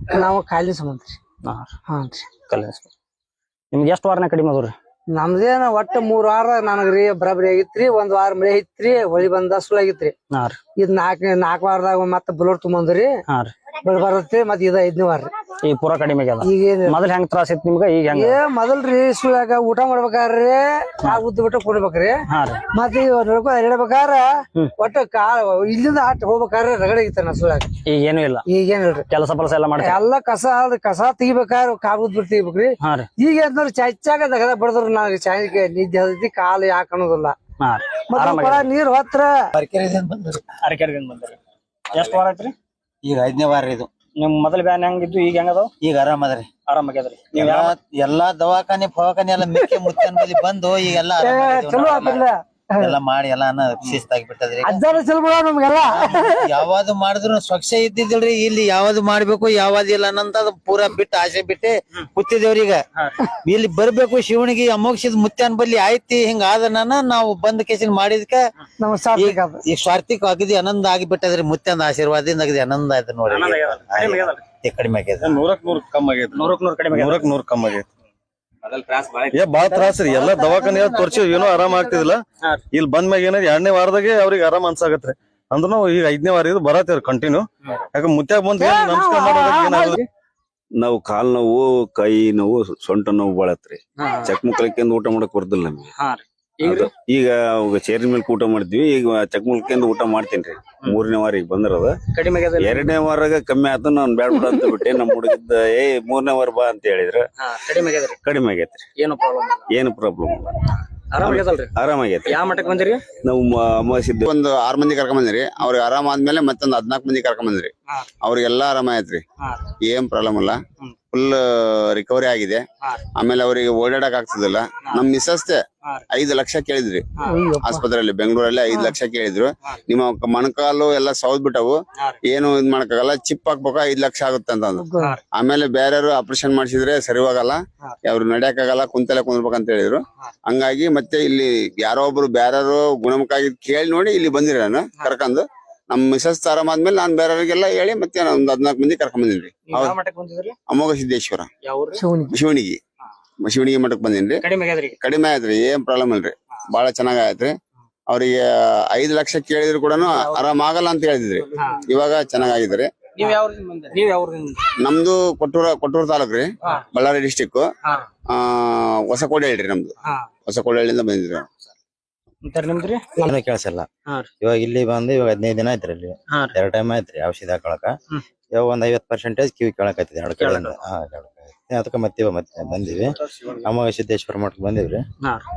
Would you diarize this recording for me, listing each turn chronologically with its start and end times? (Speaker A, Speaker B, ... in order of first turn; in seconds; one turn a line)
Speaker A: 0.1-1.2
Speaker B: 1.4-1.8
Speaker A: 1.9-2.3
Speaker B: 2.5-2.9
Speaker B: 3.7-4.7
Speaker A: 5.1-10.1
Speaker B: 10.3-10.6
Speaker A: 10.8-13.1
Speaker B: 13.3-13.5
Speaker A: 13.8-15.3
Speaker B: 15.6-18.4
Speaker A: 16.4-17.0
Speaker A: 18.1-22.2
Speaker B: 22.3-22.6
Speaker A: 22.7-27.7
Speaker B: 27.9-28.5
Speaker A: 28.5-29.1
Speaker B: 29.1-30.0
Speaker A: 29.8-37.4
Speaker B: 32.8-33.1
Speaker B: 37.6-38.7
Speaker A: 38.1-39.3
Speaker C: 39.5-40.5
Speaker B: 40.6-41.4
Speaker B: 41.9-42.5
Speaker C: 43.0-43.9
Speaker B: 44.2-45.7
Speaker C: 45.8-46.5
Speaker B: 46.7-47.8
Speaker C: 47.3-52.3
Speaker A: 49.5-49.8
Speaker A: 51.2-53.0
Speaker C: 52.8-54.8
Speaker A: 54.6-56.6
Speaker C: 55.9-62.8
Speaker C: 63.4-68.4
Speaker A: 68.8-69.6
Speaker C: 69.2-75.4
Speaker B: 73.3-74.4
Speaker D: 75.2-77.9
Speaker B: 76.3-77.3
Speaker E: 79.0-79.3
Speaker D: 79.3-90.0
Speaker C: 79.6-82.1
Speaker A: 88.6-90.0
Speaker E: 90.8-95.9
Speaker B: 94.0-94.3
Speaker B: 96.0-96.9
Speaker E: 96.6-102.0
Speaker B: 102.1-103.0
Speaker E: 102.6-107.2
Speaker B: 107.4-108.2
Speaker E: 108.2-108.8
Speaker B: 109.0-109.7
Speaker E: 109.7-110.6
Speaker B: 111.1-111.7
Speaker E: 111.2-112.5
Speaker B: 112.2-113.0
Speaker E: 113.2-114.3
Speaker F: 114.2-117.7
Speaker F: 118.2-119.2
Speaker F: 119.9-120.6
Speaker F: 121.1-122.6
Speaker F: 123.2-127.0
Speaker A: 127.3-127.8
Speaker F: 127.6-131.8
Speaker A: 128.7-129.0
Speaker F: 132.3-150.0
Speaker A: 134.7-135.2
Speaker B: 149.7-150.6
Speaker F: 150.7-151.5
Speaker B: 151.6-152.0
Speaker A: 152.0-152.3
Speaker F: 152.3-152.8
Speaker F: 153.4-154.4
Speaker B: 154.4-155.0
Speaker F: 155.0-157.5
Speaker F: 158.1-162.9
Speaker B: 160.1-160.4
Speaker B: 163.2-164.7
Speaker F: 164.8-167.7
Speaker F: 168.3-169.9
Speaker F: 170.5-171.5
Speaker B: 172.4-173.1
Speaker C: 173.2-173.9
Speaker C: 174.4-177.9
Speaker C: 178.6-185.0
Speaker B: 180.4-180.8